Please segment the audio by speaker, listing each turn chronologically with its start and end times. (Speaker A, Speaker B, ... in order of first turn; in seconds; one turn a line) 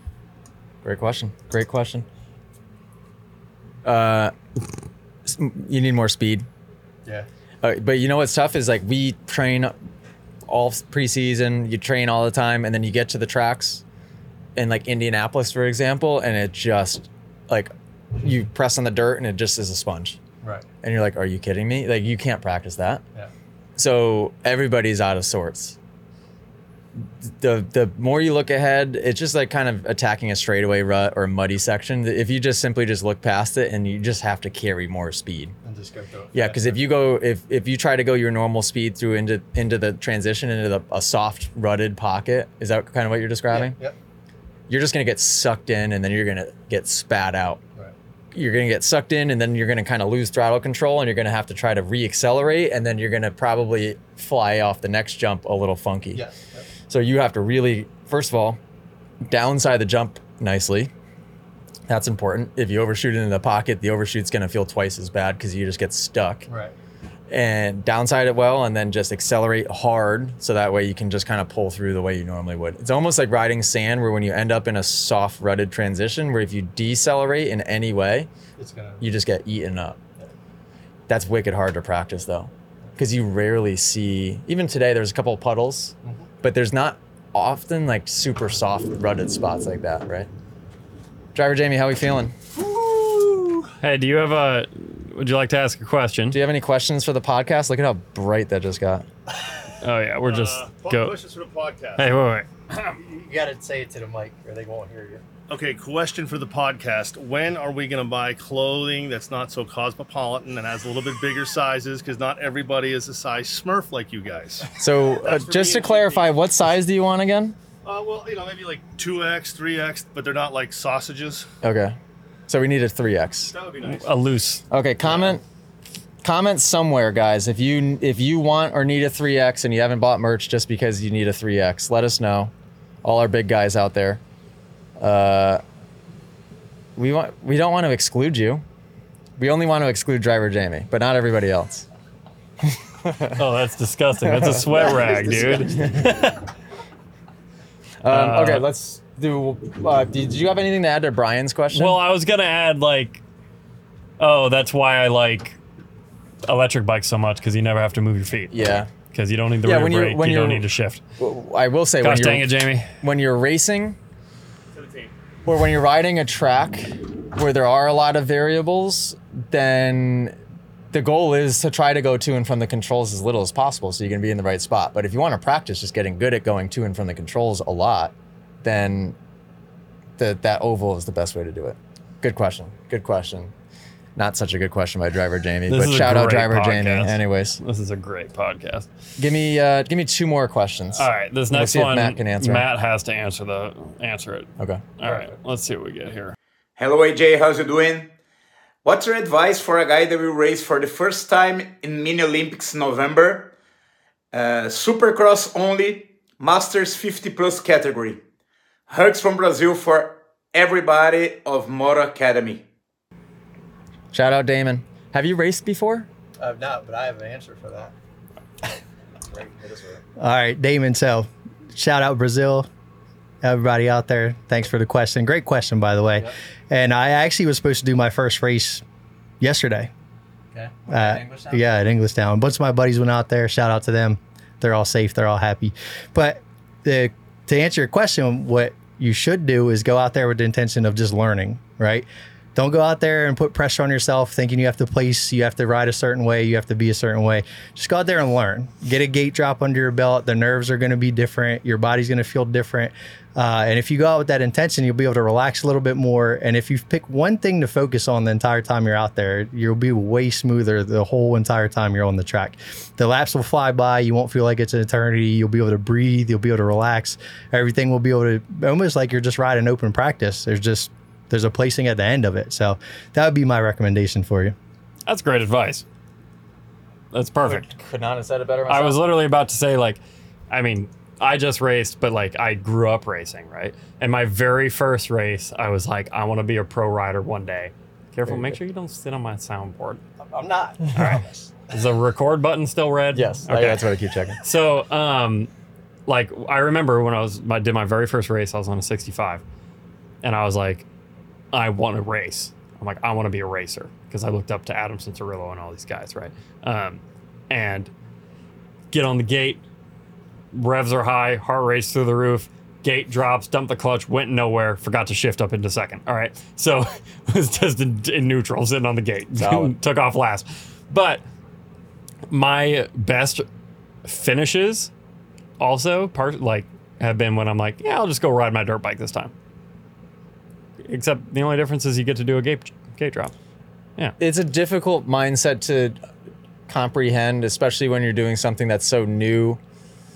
Speaker A: 0.8-2.0
Speaker A: 3.8-4.3
Speaker A: 5.2-6.5
Speaker A: 7.6-9.7
Speaker A: 10.5-13.8
Speaker A: 14.6-20.2
Speaker A: 20.8-23.0
Speaker A: 23.8-25.8
Speaker A: 27.0-35.5
Speaker B: 35.6-36.8
Speaker A: 36.3-43.8
Speaker B: 43.5-43.9
Speaker A: 44.7-47.6
Speaker A: 48.3-56.2
Speaker B: 56.1-56.6
Speaker A: 56.9-58.6
Speaker A: 59.2-60.9
Speaker A: 61.9-66.5
Speaker B: 66.5-66.7
Speaker A: 67.3-78.3
Speaker B: 78.6-79.0
Speaker A: 79.0-80.0
Speaker A: 81.1-90.3
Speaker A: 91.3-92.3
Speaker C: 92.6-93.6
Speaker D: 93.8-96.4
Speaker A: 96.3-99.0
Speaker D: 99.8-101.2
Speaker C: 100.2-102.1
Speaker D: 102.0-102.5
Speaker B: 102.9-105.2
Speaker C: 105.5-116.3
Speaker A: 114.8-117.5
Speaker C: 117.8-121.5
Speaker A: 121.6-122.0
Speaker A: 122.5-123.5
Speaker C: 123.5-124.1
Speaker D: 123.8-124.6
Speaker A: 124.7-125.4
Speaker C: 125.0-125.3
Speaker A: 126.2-132.5
Speaker A: 133.0-134.2
Speaker A: 135.0-135.6
Speaker A: 137.0-138.6
Speaker A: 139.4-141.8
Speaker A: 143.0-143.4
Speaker D: 143.3-146.4
Speaker A: 144.3-145.9
Speaker B: 144.5-145.8
Speaker A: 148.0-152.0
Speaker D: 148.1-148.7
Speaker D: 151.7-153.2
Speaker D: 154.2-155.6
Speaker D: 156.4-161.0
Speaker A: 158.5-158.9
Speaker A: 159.6-160.7
Speaker A: 161.2-164.0
Speaker D: 162.0-162.9
Speaker C: 164.7-165.1
Speaker A: 165.4-170.3
Speaker A: 170.9-179.2
Speaker A: 180.2-183.5
Speaker A: 184.2-187.6
Speaker D: 185.7-188.9
Speaker A: 189.2-192.7
Speaker D: 190.9-196.3
Speaker E: 196.8-198.1
Speaker E: 198.8-203.5
Speaker E: 204.3-208.2
Speaker E: 208.9-212.7
Speaker A: 214.1-216.1
Speaker B: 216.4-217.9
Speaker A: 219.6-220.0
Speaker B: 220.2-222.7
Speaker B: 223.4-228.8
Speaker B: 229.4-229.9
Speaker A: 230.5-231.6
Speaker B: 230.9-274.5
Speaker D: 275.1-275.9
Speaker D: 277.1-277.7
Speaker A: 277.4-279.1
Speaker D: 278.7-290.0
Speaker B: 290.2-291.6
Speaker D: 290.9-293.9
Speaker A: 293.1-294.4
Speaker D: 294.4-295.5
Speaker D: 296.1-299.4
Speaker D: 300.2-300.9
Speaker D: 301.5-307.9
Speaker D: 308.9-309.6
Speaker D: 310.5-321.2
Speaker A: 319.3-319.8
Speaker D: 322.3-323.4
Speaker D: 324.0-324.9
Speaker D: 325.6-329.3
Speaker D: 330.8-333.3
Speaker A: 334.2-336.0
Speaker A: 336.7-339.6